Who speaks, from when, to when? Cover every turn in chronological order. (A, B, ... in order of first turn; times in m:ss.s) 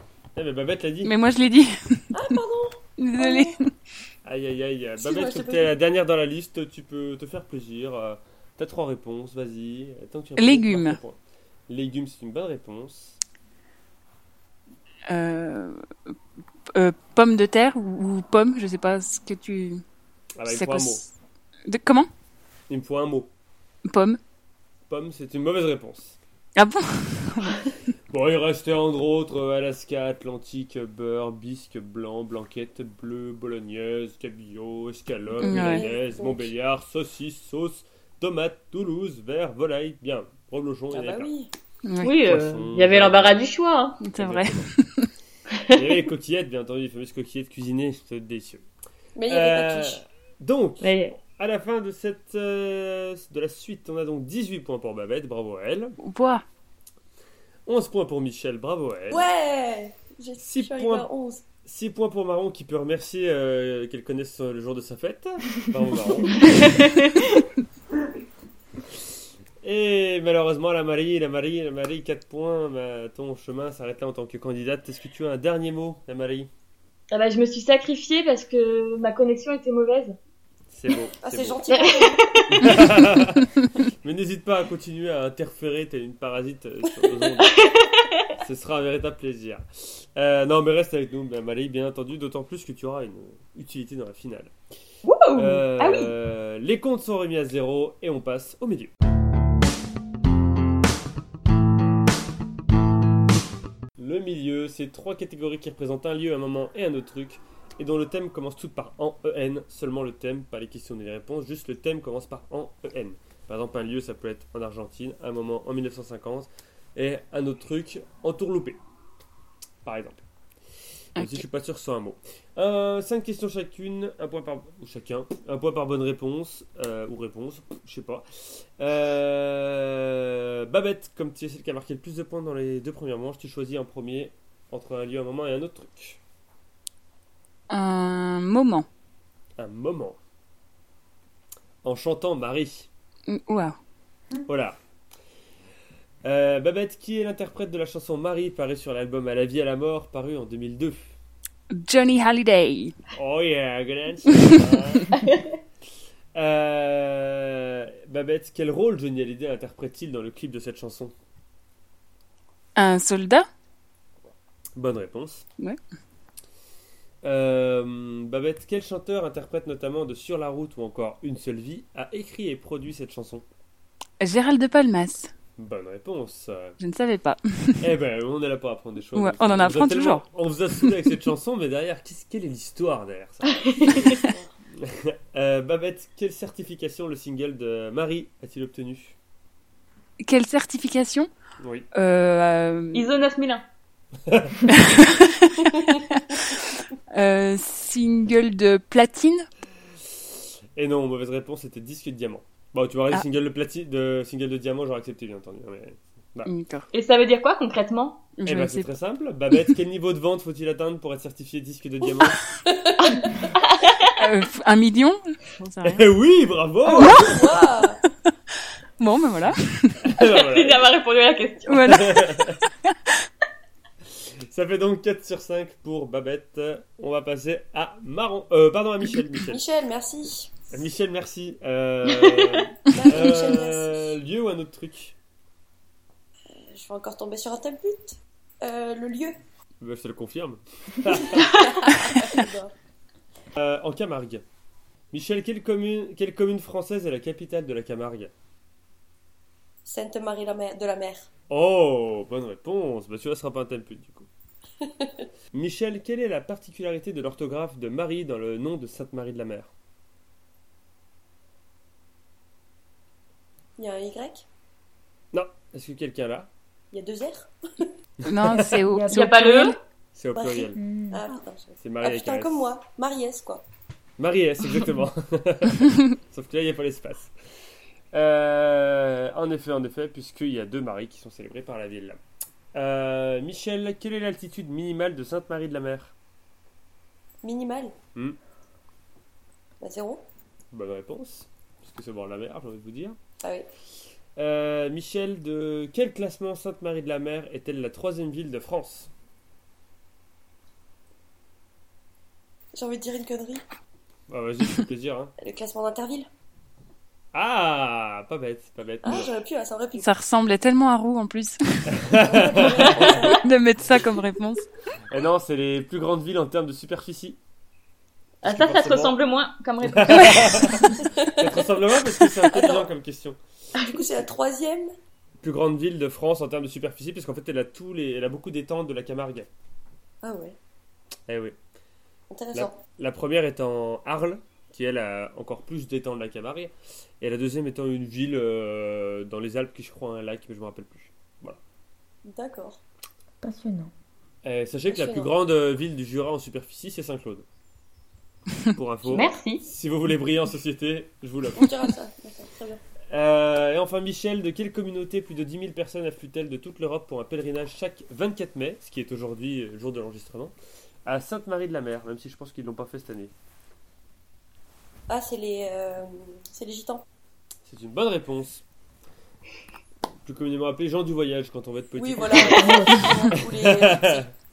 0:00.4-0:01.1 A
0:01.0-0:02.2 B
0:02.1-0:03.5 C
0:03.0-0:03.7 B
0:04.2-0:11.2 A
0:05.0-0:05.7 C
0:10.4-0:11.0 B
0:11.7-0:13.2 A
0:15.1-0:15.8 B
0:16.7-0:19.8 B
0:20.4-0:21.0 A
0:20.4-0:21.1 B
0:21.7-0:22.1 B
0:22.7-0:23.3 A
0:23.9-0:24.2 B
0:24.9-0:26.2 A
0:26.6-0:27.7 B
0:28.1-0:41.3 A
0:35.4-0:35.9 B
0:35.4-0:36.5 C
0:40.9-0:41.5 C
0:41.8-0:42.2 B
0:42.0-0:44.0 D
0:42.2-0:43.4 A
0:44.0-0:45.1 B
0:44.1-0:44.7 A
0:45.5-0:45.8 D
0:45.7-0:48.6 A
0:49.2-0:50.0 C
0:49.3-0:56.0 A
0:50.8-0:51.2 D
0:56.0-0:56.4 B
0:57.6-0:59.2 A
0:59.1-1:01.4 C
1:00.4-1:01.1 A
1:01.6-1:06.5 A
1:06.4-1:07.1 D
1:09.6-1:16.5 A
1:17.1-1:20.2 D
1:20.7-1:21.6 A
1:21.2-1:22.4 C
1:21.7-1:22.7 D
1:22.5-1:27.5 A
1:27.6-1:28.2 D
1:28.4-1:34.5 A
1:35.0-1:36.1 D
1:35.4-1:38.9 A
1:44.0-1:58.8 A
1:59.8-2:00.2 A
2:01.2-2:16.2 A
2:01.2-2:01.4 B
2:17.7-2:18.9 B
2:19.6-2:20.2 A
2:21.8-2:22.9 A
2:23.3-2:23.8 B
2:24.4-2:24.8 A
2:26.2-2:31.1 A
2:31.7-2:32.9 B
2:33.1-2:35.2 A
2:34.4-2:34.6 B
2:36.4-2:41.1 A
2:42.8-2:43.5 B
2:44.8-2:45.4 A
2:47.2-2:53.4 A
2:54.2-2:55.3 B
2:55.6-2:56.8 A
2:56.8-2:57.9 B
2:57.8-3:04.0 A
2:59.1-3:00.2 B
3:00.8-3:01.1 B
3:03.7-3:04.0 D
3:03.8-3:04.5 C
3:04.7-3:09.2 A
3:10.2-3:11.3 B
3:11.6-3:11.9 A
3:11.9-3:13.1 B
3:12.9-3:13.6 D
3:14.2-3:14.6 A
3:14.6-3:19.5 B
3:20.8-3:26.5 A
3:26.4-3:26.9 B
3:26.9-3:28.3 D
3:28.4-3:28.9 B
3:28.4-3:32.4 A
3:32.6-3:33.5 C
3:33.0-3:34.1 D
3:34.2-3:36.0 B
3:35.8-3:37.4 A
3:36.9-3:37.5 B
3:36.9-3:38.0 C
3:39.0-3:40.0 B
3:40.0-3:40.9 A
3:40.2-3:42.2 D
3:41.7-3:42.9 B
3:41.9-3:42.6 A
3:44.5-3:49.6 A
3:49.5-3:50.5 C
3:50.7-3:55.1 A
3:52.9-3:54.1 C
3:56.5-3:59.4 C
3:59.8-4:01.6 A
4:01.2-4:02.7 C
4:03.6-4:04.4 A
4:05.1-4:08.3 A
4:09.8-4:11.3 C
4:11.5-4:14.3 A
4:14.8-4:15.1 C
4:15.5-4:19.7 A
4:23.8-4:24.4 C
4:25.3-4:26.5 A
4:26.9-4:27.9 C
4:28.2-4:28.8 A
4:28.2-4:29.8 B
4:28.8-4:29.3 E
4:29.1-4:29.8 D
4:30.1-4:30.8 A
4:30.4-4:33.6 C
4:30.7-4:31.2 E
4:31.8-4:32.7 A
4:34.2-4:37.3 A
4:38.1-4:42.2 A
4:42.7-4:46.1 A
4:47.4-4:48.0 C
4:49.8-4:50.2 C
4:50.7-4:53.2 A
4:53.4-4:53.7 C
4:54.4-4:59.1 A
5:02.7-5:03.6 C
5:04.3-5:05.3 A
5:05.4-5:06.3 C
5:07.3-5:09.3 A
5:09.0-5:10.1 C
5:10.0-5:12.0 B
5:11.9-5:13.4 A
5:12.2-5:13.4 C
5:12.6-5:14.7 B
5:15.1-5:17.4 A
5:18.4-5:20.8 D
5:18.4-5:19.1 A
5:19.9-5:24.2 A
5:21.0-5:21.6 C
5:22.4-5:22.9 C
5:23.7-5:24.9 C
5:25.4-5:29.5 A
5:30.2-5:30.6 C
5:31.3-5:31.6 A
5:32.3-5:32.8 C
5:32.5-5:41.6 A
5:42.3-5:42.8 C
5:43.4-5:43.9 E
5:44.4-5:47.4 A
5:44.9-5:45.3 C
5:48.7-5:51.7 A
5:49.0-5:49.6 D
5:51.6-5:52.8 C
5:53.1-6:00.5 A
6:01.0-6:03.3 A
6:05.1-6:07.0 C
6:07.6-6:08.6 A
6:10.2-6:14.3 A
6:12.0-6:14.2 C
6:12.6-6:13.0 E
6:12.7-6:13.2 D